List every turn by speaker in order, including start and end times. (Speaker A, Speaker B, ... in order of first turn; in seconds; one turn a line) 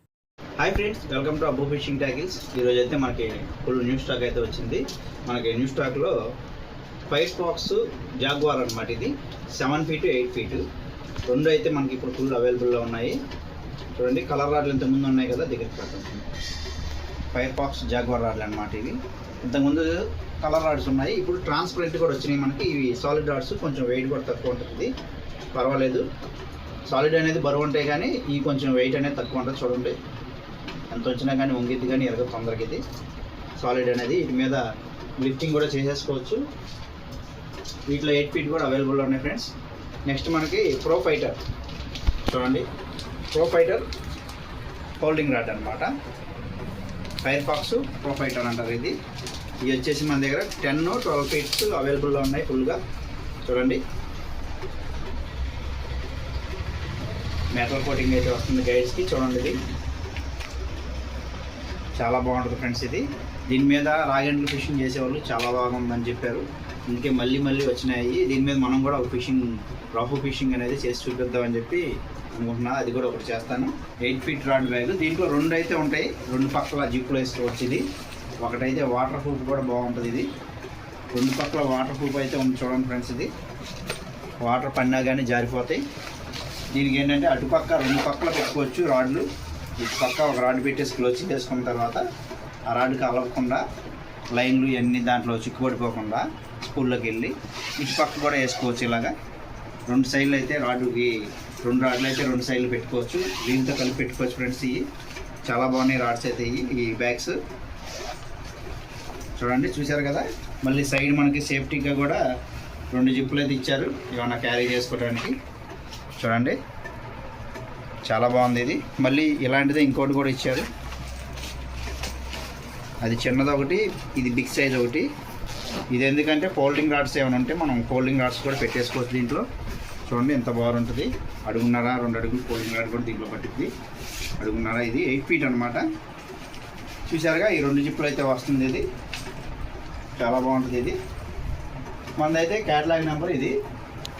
Speaker A: 0.6-6.2
Speaker A: 7.1-10.6
Speaker A: 11.3-13.2
Speaker A: 13.9-16.3
Speaker A: 17.3-19.0
Speaker A: 19.5-24.9
Speaker A: 25.5-26.0
Speaker A: 26.9-29.9
Speaker A: 30.9-32.8
Speaker A: 33.6-34.6
Speaker A: 35.2-36.4
Speaker A: 37.9-39.5
Speaker A: 40.1-41.4
Speaker A: 42.3-42.7
Speaker A: 43.3-43.9
Speaker A: 45.0-45.9
Speaker A: 47.2-49.0
Speaker A: 49.6-52.8
Speaker A: 53.5-53.8
Speaker A: 57.5-59.6
Speaker A: 62.0-77.8
Speaker A: 78.4-80.3
Speaker A: 81.1-83.3
Speaker A: 84.4-85.8
Speaker A: 86.7-89.3
Speaker A: 89.8-92.0
Speaker A: 92.7-93.6
Speaker A: 94.3-99.1
Speaker A: 99.9-104.8
Speaker A: 105.5-107.4
Speaker A: 109.4-112.2
Speaker A: 112.9-115.3
Speaker A: 116.2-116.6
Speaker A: 118.1-120.7
Speaker A: 123.0-125.1
Speaker A: 125.9-129.5
Speaker A: 130.1-133.7
Speaker A: 134.4-135.9
Speaker A: 137.1-138.8
Speaker A: 140.2-141.0
Speaker A: 142.2-143.5